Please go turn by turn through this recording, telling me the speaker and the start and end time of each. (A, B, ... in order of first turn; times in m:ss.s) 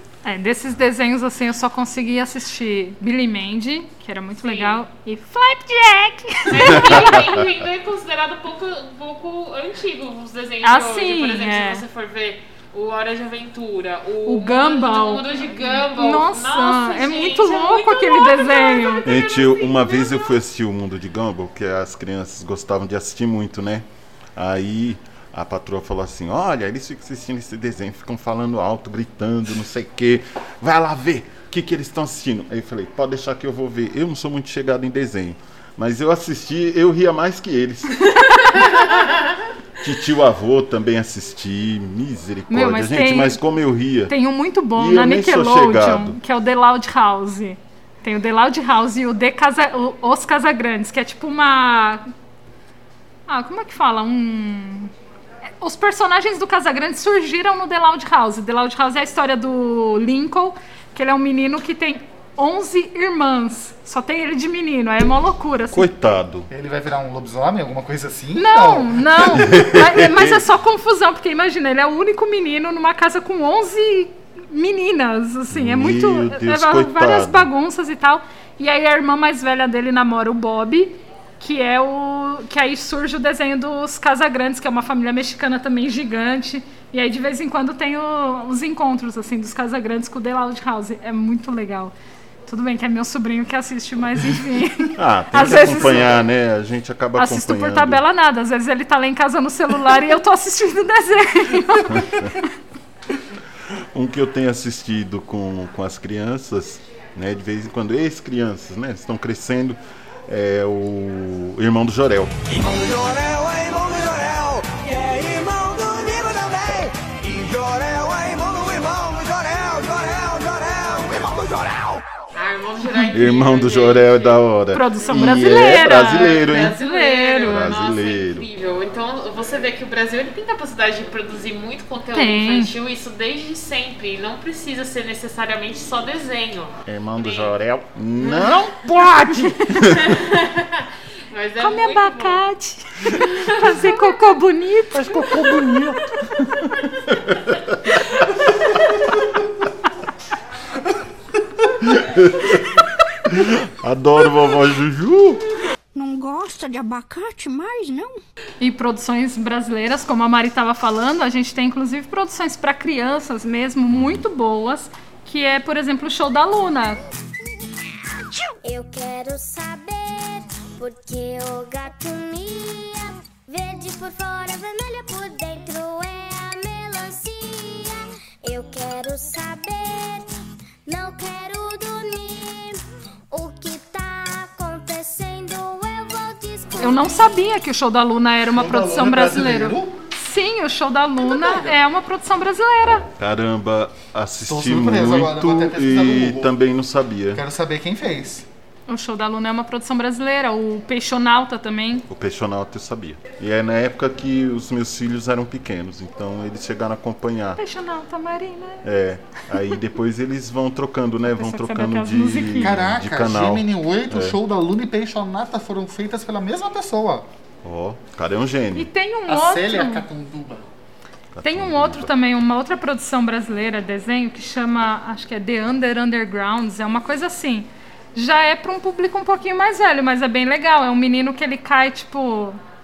0:00.2-0:07.3 A
0:04.4-0:04.8 B
0:06.5-0:20.4 B
0:10.6-0:11.8 A
0:14.3-0:19.0 A
0:19.0-0:38.7 C
0:38.3-0:38.7 A
0:39.8-0:44.1 C
0:42.5-0:43.4 A
0:44.1-0:52.0 A
0:44.7-0:46.2 C
0:53.3-0:54.9 A
0:55.6-1:05.9 A
1:05.7-1:06.5 C
1:06.5-1:09.6 D
1:08.3-1:31.9 A
1:09.4-1:10.4 C
1:15.5-1:17.5 C
1:32.5-1:36.2 A
1:34.9-1:38.0 C
1:35.5-1:36.0 D
1:37.2-1:42.5 A
1:41.9-1:42.3 C
1:43.9-1:52.5 C
1:52.5-2:02.0 E
2:02.3-2:04.4 B
2:03.1-2:06.8 C
2:04.7-2:07.7 A
2:06.1-2:17.5 B
2:07.4-2:08.5 C
2:12.1-2:12.7 A
2:16.8-2:20.1 C
2:18.2-2:18.5 B
2:19.2-2:19.9 A
2:19.8-2:22.4 B
2:21.6-2:25.5 A
2:23.1-2:24.2 B
2:24.9-2:29.2 C
2:31.7-2:35.4 C
2:35.9-2:38.2 F
2:38.6-2:47.0 A
2:48.6-3:00.3 G
3:00.9-3:07.4 G
3:06.8-3:13.1 A
3:08.5-3:10.0 D
3:11.2-3:11.7 D
3:13.2-3:17.4 C
3:14.4-3:16.5 D
3:17.3-3:18.5 D
3:18.9-3:22.0 A
3:22.1-3:27.6 C
3:27.6-3:28.8 A
3:28.8-3:34.4 C
3:31.3-3:32.7 A
3:32.6-3:37.3 D
3:37.6-3:38.9 C
3:38.7-3:40.0 A
3:39.3-3:40.6 D
3:41.3-3:42.1 C
3:41.4-3:52.6 A